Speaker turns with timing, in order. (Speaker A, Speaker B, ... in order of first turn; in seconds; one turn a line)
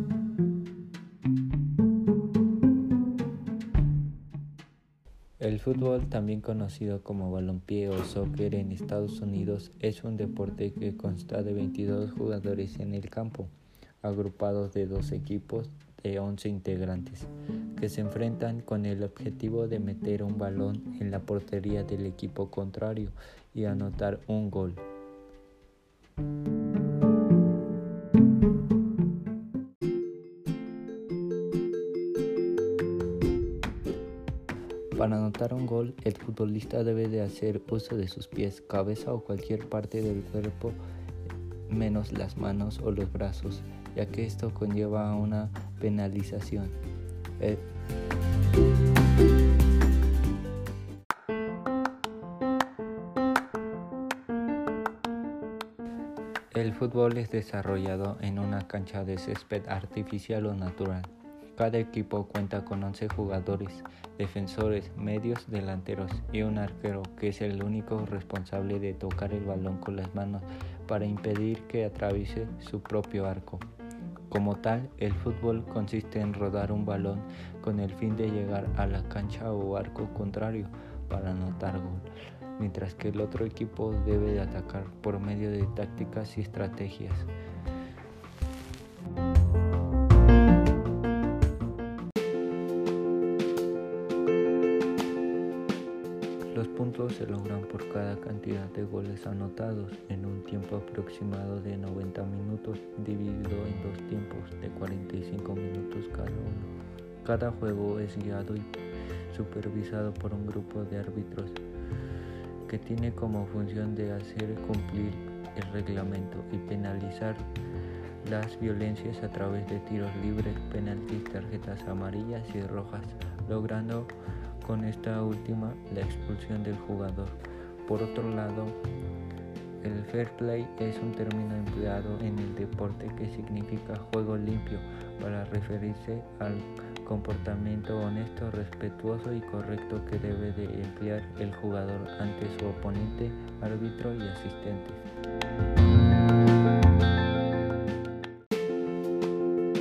Speaker A: 5.4-13.5
Speaker A: 14.0-24.9
Speaker A: 34.9-40.8
Speaker A: 41.7-46.8
Speaker A: 47.4-47.6
Speaker A: 56.5-73.7
Speaker A: 74.3-87.3
Speaker A: 96.5-106.7
Speaker A: 107.2-108.7
Speaker A: 109.3-111.6
Speaker A: 112.7-117.5
Speaker A: 118.2-128.8
Speaker A: 129.8-145.1